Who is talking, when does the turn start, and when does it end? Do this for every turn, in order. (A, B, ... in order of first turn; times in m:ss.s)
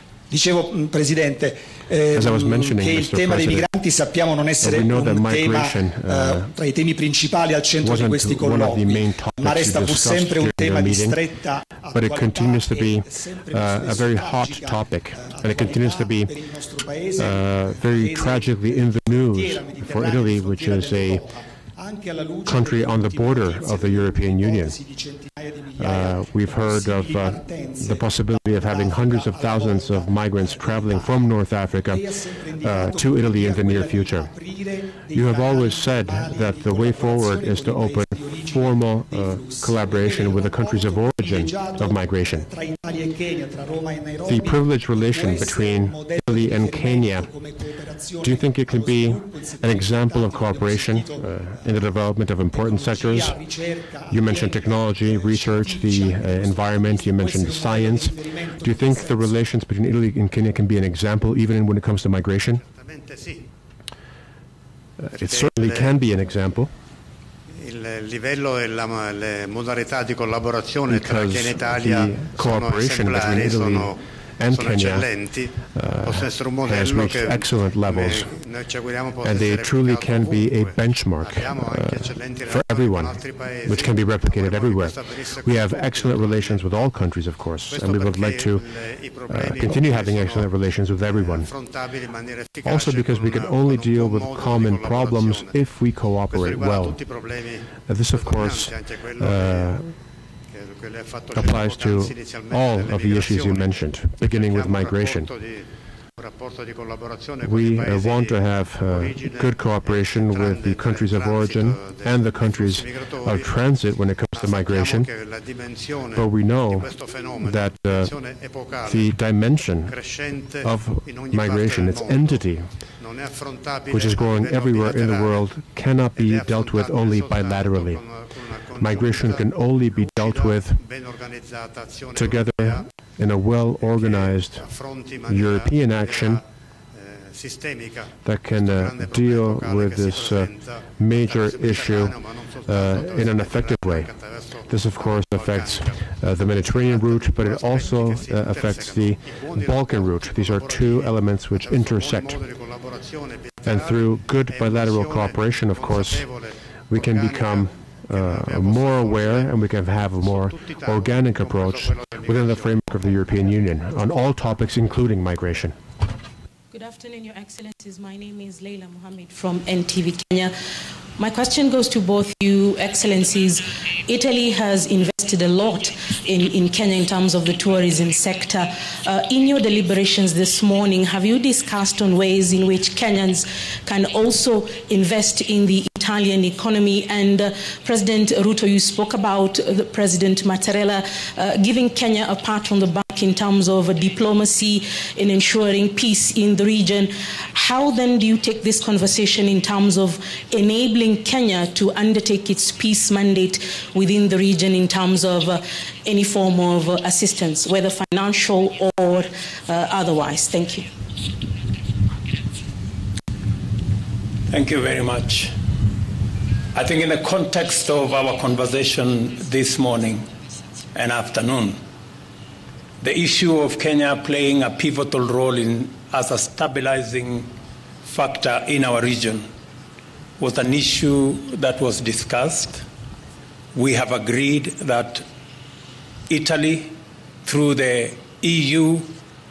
0:00.3-0:31.2 A
0:02.1-0:03.7 B
0:04.6-0:06.5 B
0:07.8-0:11.2 B
0:11.9-0:16.3 B
0:17.2-0:21.2 B
0:22.4-0:24.8 B
0:25.8-0:32.1 B
0:31.9-0:51.3 A
0:32.6-0:34.3 B
0:35.1-0:42.5 B
0:44.3-0:47.3 B
0:48.2-0:53.4 B
0:52.5-0:59.3 A
0:54.1-1:02.6 B
1:02.7-1:03.5 C
1:05.0-1:06.7 B
1:05.2-1:05.9 C
1:07.6-1:14.0 C
1:10.9-1:18.4 B
1:14.5-1:26.7 C
1:19.2-1:31.5 B
1:27.7-1:30.5 C
1:31.2-1:35.5 C
1:32.6-1:39.9 B
1:36.3-1:39.7 C
1:40.6-1:43.7 C
1:41.3-1:45.3 B
1:44.3-1:45.7 C
1:46.2-1:53.5 C
1:47.4-1:55.2 B
1:54.3-1:59.0 C
1:56.1-2:02.8 B
1:59.9-2:02.4 C
2:03.0-2:05.3 C
2:03.9-2:08.1 B
2:06.2-2:12.9 C
2:08.8-2:10.8 B
2:12.1-2:16.4 B
2:14.0-2:16.4 C
2:17.3-2:26.0 C
2:18.2-2:32.4 B
2:26.8-2:39.5 C
2:33.6-2:36.3 B
2:36.9-2:45.8 B
2:40.2-2:42.8 C
2:46.7-2:50.5 D
2:51.2-3:30.8 D
3:34.5-3:35.5 E
3:36.7-3:40.3 E
3:40.9-3:41.8 E
3:43.0-3:47.5 E
3:48.0-3:49.4 E
3:50.4-3:52.8 E
3:53.7-3:55.2 E
3:56.3-3:59.1 E